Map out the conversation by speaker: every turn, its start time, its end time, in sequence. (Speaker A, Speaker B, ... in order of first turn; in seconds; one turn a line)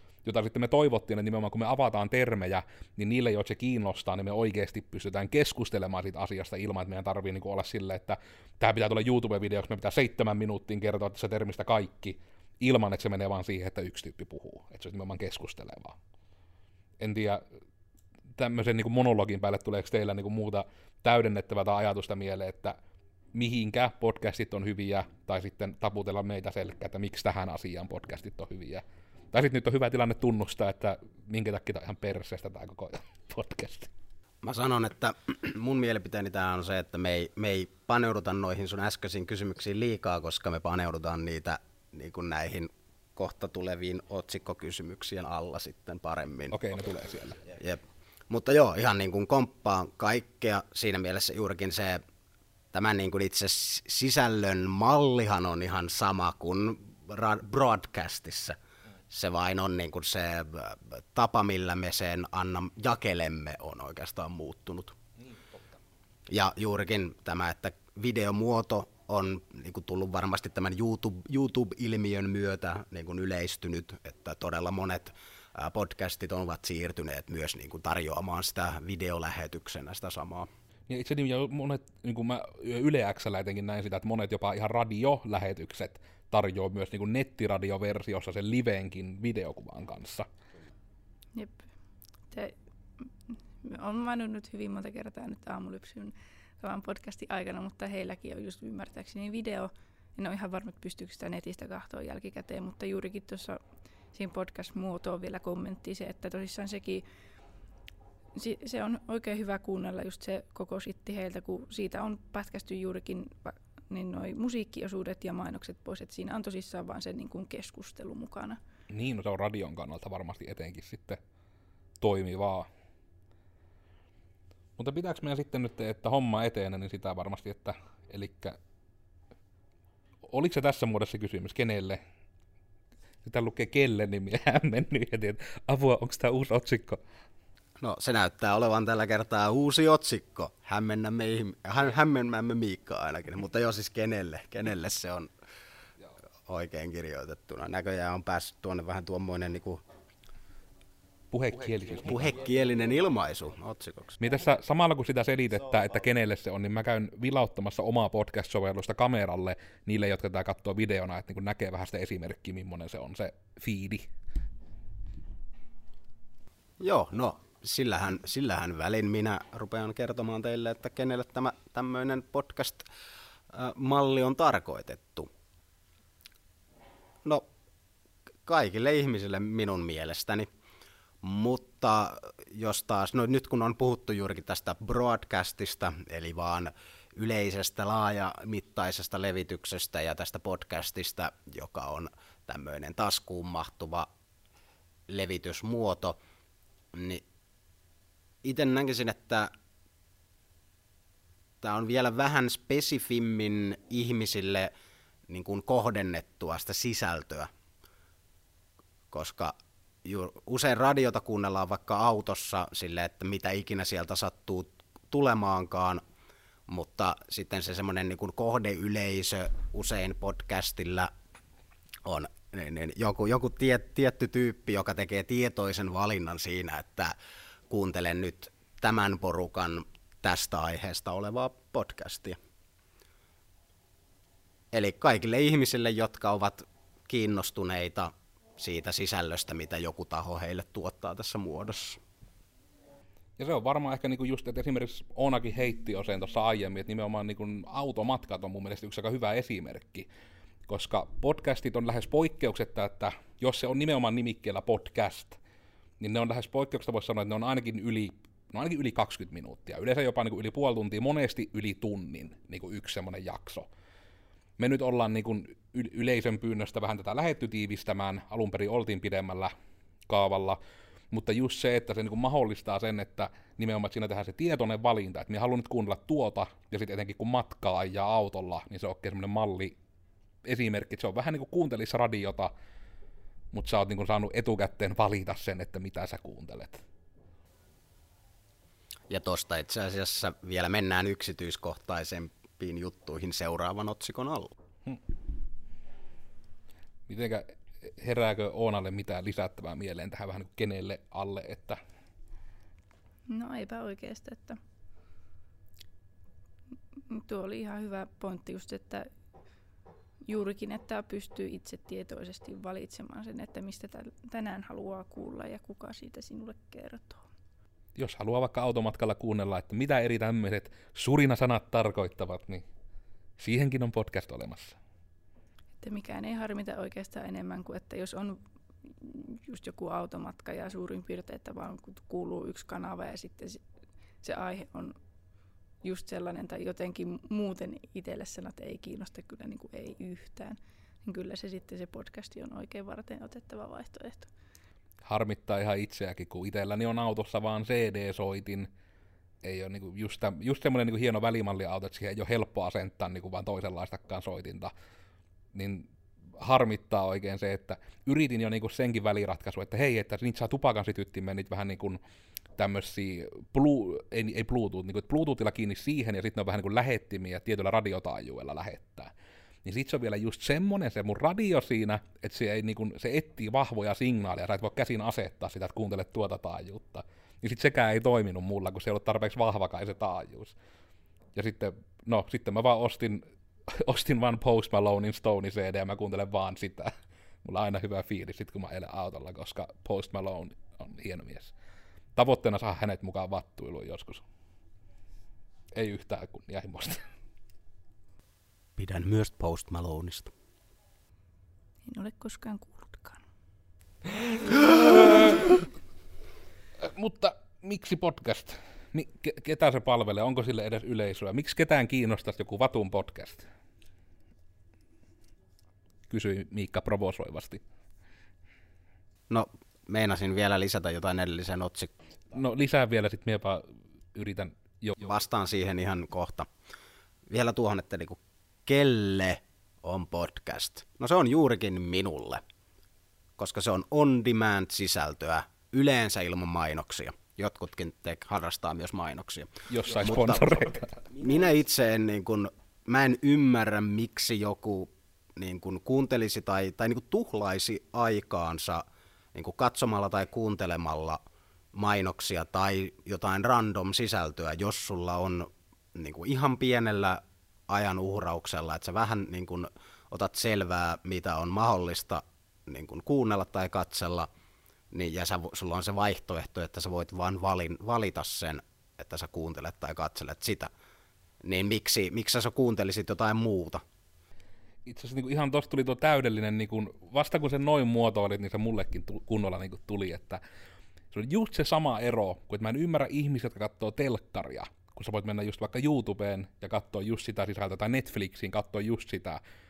Speaker A: 0.2-16.0
Speaker A: 17.0-17.4
Speaker A: 18.4-22.8
Speaker A: 23.3-33.9
Speaker B: 34.4-46.6
Speaker A: 46.5-47.4
Speaker B: 47.5-52.0
Speaker B: 52.7-58.6
Speaker B: 59.1-65.0
Speaker B: 66.3-80.5
Speaker A: 80.9-90.3
Speaker C: 91.3-91.7
Speaker C: 92.3-103.6
Speaker C: 104.1-107.0
Speaker C: 108.3-118.6
Speaker A: 118.9-121.2
Speaker A: 122.0-122.7
Speaker A: 124.8-128.6
Speaker A: 130.3-132.0
Speaker A: 133.2-137.0
Speaker B: 137.8-145.3
Speaker B: 146.5-149.8
Speaker A: 151.3-152.3
Speaker B: 152.0-154.2
Speaker A: 154.2-164.1
Speaker B: 166.8-172.9
Speaker B: 173.5-175.3
Speaker B: 178.5-180.5
Speaker B: 181.2-194.1
Speaker B: 195.1-196.2
Speaker B: 196.9-197.2
Speaker B: 198.4-199.5
Speaker B: 201.6-204.7
Speaker B: 205.3-207.5
Speaker B: 209.1-216.0
Speaker B: 216.7-221.1
Speaker B: 222.1-227.2
Speaker B: 227.7-232.4
Speaker B: 234.7-242.0
Speaker A: 243.4-250.1
Speaker A: 250.7-255.4
Speaker A: 256.0-263.7
Speaker A: 264.6-269.5
Speaker A: 270.1-270.6
Speaker A: 271.1-279.8
Speaker A: 280.4-282.5
Speaker A: 283.5-286.8
Speaker B: 289.1-294.5
Speaker A: 297.1-301.8
Speaker C: 303.3-304.6
Speaker C: 307.1-309.1
Speaker C: 310.3-317.2
Speaker A: 318.0-322.6
Speaker A: 323.4-324.8
Speaker C: 325.8-333.6
Speaker C: 334.2-335.0
Speaker C: 335.8-344.3
Speaker A: 345.1-348.7
Speaker A: 349.4-354.7
Speaker A: 355.5-362.0
Speaker A: 362.6-369.1
Speaker A: 369.6-380.6
Speaker A: 381.4-386.9
Speaker A: 387.4-391.5
Speaker A: 392.2-394.2
Speaker A: 395.8-397.1
Speaker B: 398.8-400.3
Speaker C: 401.9-403.2
Speaker A: 404.5-405.6
Speaker A: 406.8-413.5
Speaker A: 416.1-417.6
Speaker B: 419.3-422.0
Speaker A: 422.3-425.0
Speaker B: 425.0-426.5
Speaker B: 427.3-432.4
Speaker B: 433.4-451.2
Speaker A: 439.7-441.0
Speaker B: 451.7-464.3
Speaker B: 464.9-470.7
Speaker B: 471.4-473.8
Speaker A: 474.9-480.4
Speaker A: 481.1-489.4